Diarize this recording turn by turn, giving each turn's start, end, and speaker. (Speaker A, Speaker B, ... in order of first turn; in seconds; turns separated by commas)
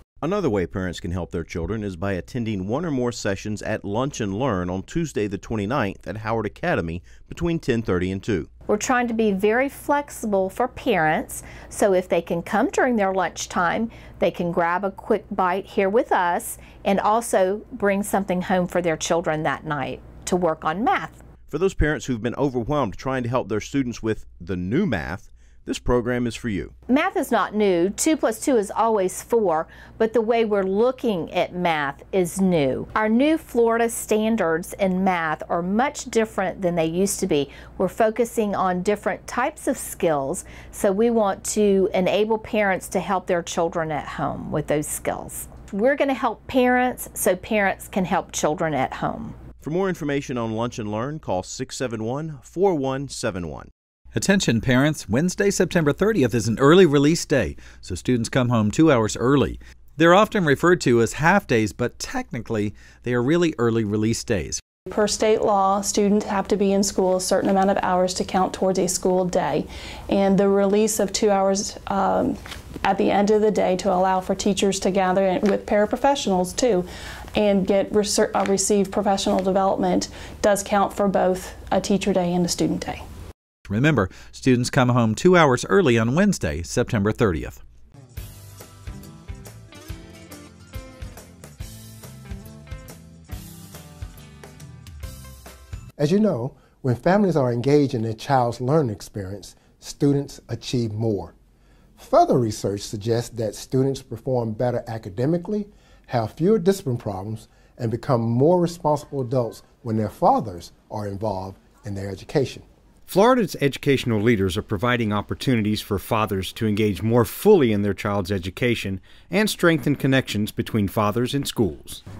Speaker A: 0.2-8.5, Speaker B: 8.7-21.2, Speaker A: 21.5-26.7, Speaker B: 26.9-49.4, Speaker A: 49.6-53.7, Speaker C: 54.1-64.6, Speaker D: 64.9-83.0, Speaker C: 83.7-87.6, Speaker E: 96.0-101.3, Speaker E: 102.0-112.7, Speaker F: 113.1-122.0